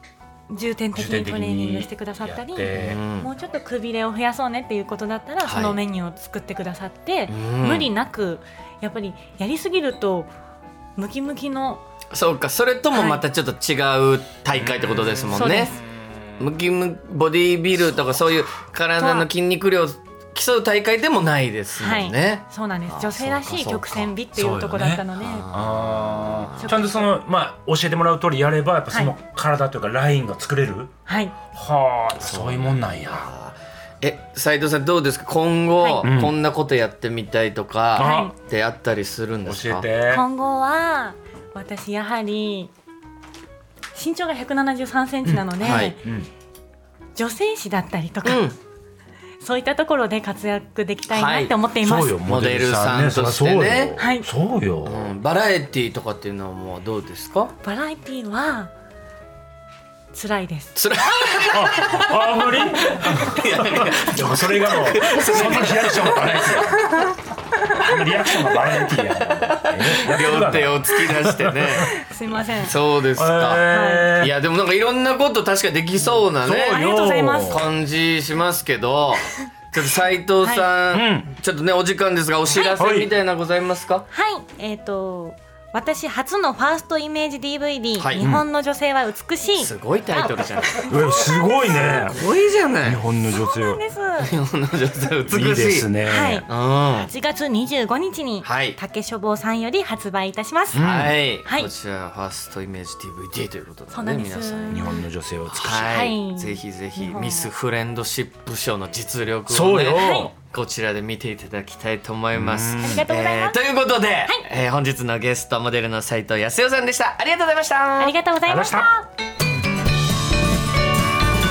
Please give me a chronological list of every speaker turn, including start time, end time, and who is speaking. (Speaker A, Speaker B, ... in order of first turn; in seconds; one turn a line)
Speaker A: 0.5-10.3
Speaker B: 0.9-3.0
Speaker C: 2.7-3.3
Speaker C: 5.4-5.8
Speaker C: 7.3-7.9
Speaker A: 10.9-11.8
Speaker C: 12.1-15.8
Speaker A: 12.9-13.2
Speaker A: 15.3-15.8
Speaker C: 16.4-24.1
Speaker A: 19.0-19.3
Speaker A: 21.8-25.5
Speaker B: 24.3-30.9
Speaker C: 25.2-26.8
Speaker A: 26.6-27.0
Speaker A: 28.9-29.2
Speaker A: 31.1-31.3
Speaker B: 31.5-33.3
Speaker C: 32.2-39.9
Speaker A: 35.8-36.0
Speaker B: 36.0-36.4
Speaker B: 38.0-38.3
Speaker A: 38.0-38.3
Speaker B: 39.5-40.2
Speaker A: 40.1-42.7
Speaker A: 43.9-46.0
Speaker B: 45.2-46.3
Speaker C: 45.6-46.0
Speaker A: 47.1-48.5
Speaker C: 48.2-48.5
Speaker A: 49.4-52.2
Speaker C: 51.1-51.5
Speaker B: 51.8-55.1
Speaker C: 52.1-54.0
Speaker A: 54.0-54.3
Speaker C: 54.8-57.5
Speaker A: 57.6-58.7
Speaker A: 60.1-60.8
Speaker C: 60.7-66.8
Speaker B: 61.5-67.0
Speaker A: 66.6-67.2
Speaker B: 67.7-71.9
Speaker C: 67.9-71.9
Speaker A: 71.7-72.8
Speaker C: 72.6-76.8
Speaker B: 73.2-74.3
Speaker A: 73.7-74.2
Speaker B: 76.4-77.7
Speaker A: 76.7-77.7
Speaker C: 77.5-84.0
Speaker A: 80.4-80.7
Speaker B: 80.9-81.3
Speaker A: 82.5-82.9
Speaker B: 82.8-83.1
Speaker A: 84.1-92.0
Speaker C: 88.0-88.3
Speaker B: 88.2-88.4
Speaker C: 89.5-90.9
Speaker B: 90.8-92.2
Speaker C: 91.9-93.0
Speaker B: 92.8-93.8
Speaker A: 93.2-94.3
Speaker C: 94.2-95.9
Speaker B: 95.3-96.4
Speaker A: 96.0-100.9
Speaker C: 96.5-97.1
Speaker C: 98.4-98.8
Speaker B: 100.7-101.3
Speaker C: 100.7-104.8
Speaker A: 101.4-101.7
Speaker A: 103.9-105.0
Speaker B: 104.7-106.0
Speaker C: 105.5-118.2
Speaker A: 105.6-107.5
Speaker B: 109.5-110.3
Speaker A: 109.9-110.3
Speaker B: 112.3-113.0
Speaker A: 112.8-113.6
Speaker A: 118.0-119.1
Speaker B: 118.5-118.9